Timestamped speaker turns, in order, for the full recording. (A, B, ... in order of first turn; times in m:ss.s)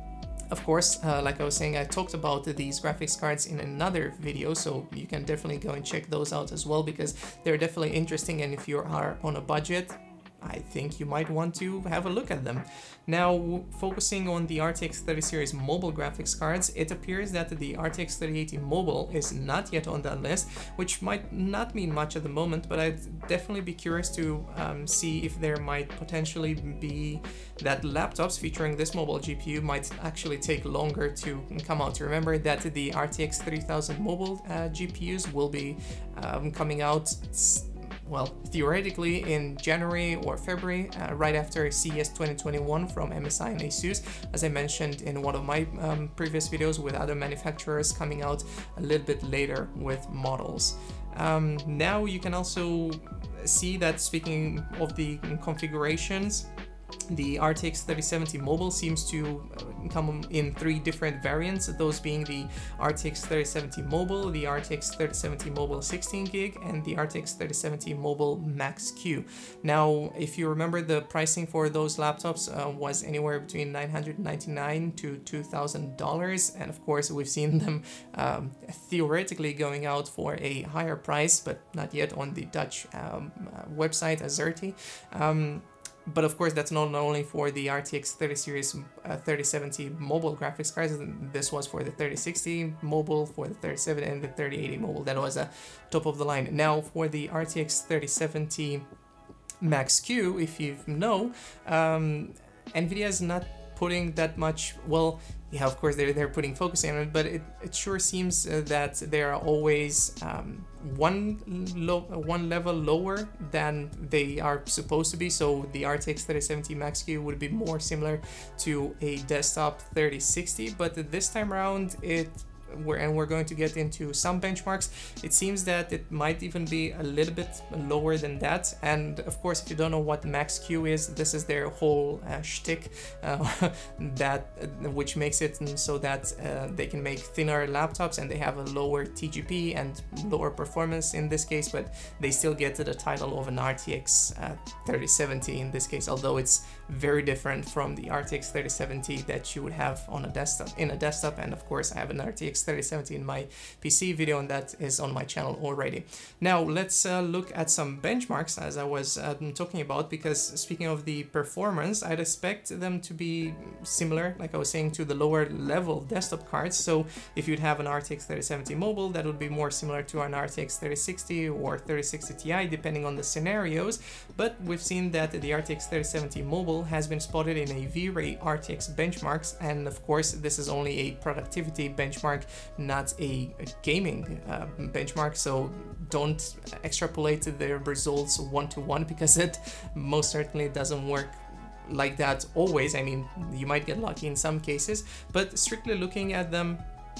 0:00.5-0:56.5 A
0:57.1-1:38.8 A
1:39.6-3:16.8 A